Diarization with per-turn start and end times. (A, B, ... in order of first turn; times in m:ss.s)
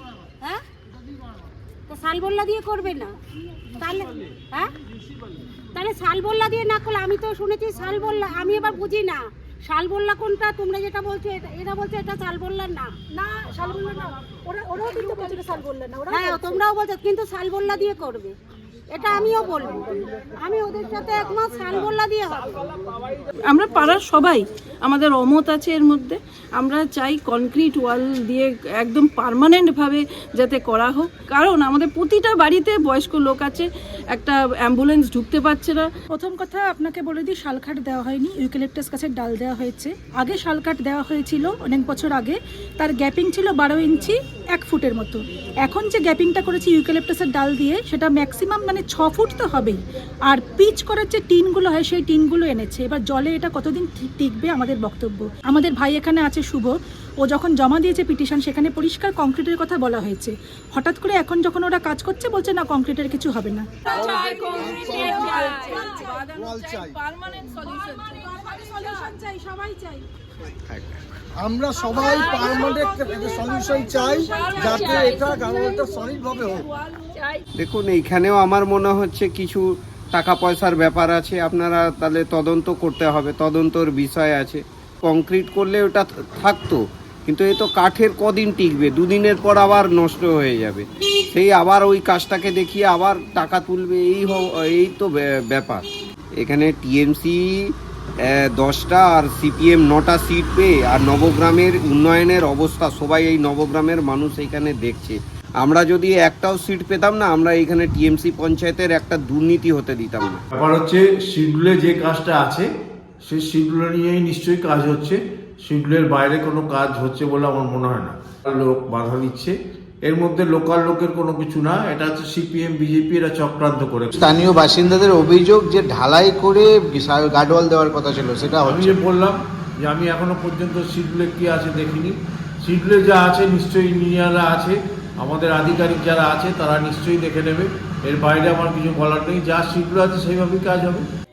0:01.9-0:03.2 A
0:03.8-0:04.7 A
0:05.7-0:13.0 A
0:13.2-0:16.6 B
0:14.8-0:15.4 A
0:16.1-0:18.3 A
0:18.9-0:22.5 A
0:23.5-0:35.9 C
0:36.1-1:03.7 B
1:03.9-1:09.1 C
1:04.2-1:05.6 D
1:05.7-1:06.0 B
1:06.4-1:06.9 D
1:09.2-1:10.0 B
1:10.7-1:11.0 E
1:11.4-1:16.6 D
1:11.9-1:17.4 C
1:17.6-1:35.8 E
1:36.4-1:37.7 E
1:38.3-1:50.4 E
1:50.5-1:52.7 F
1:53.2-2:04.1 F
2:04.2-2:09.0 G
2:08.6-2:21.0 F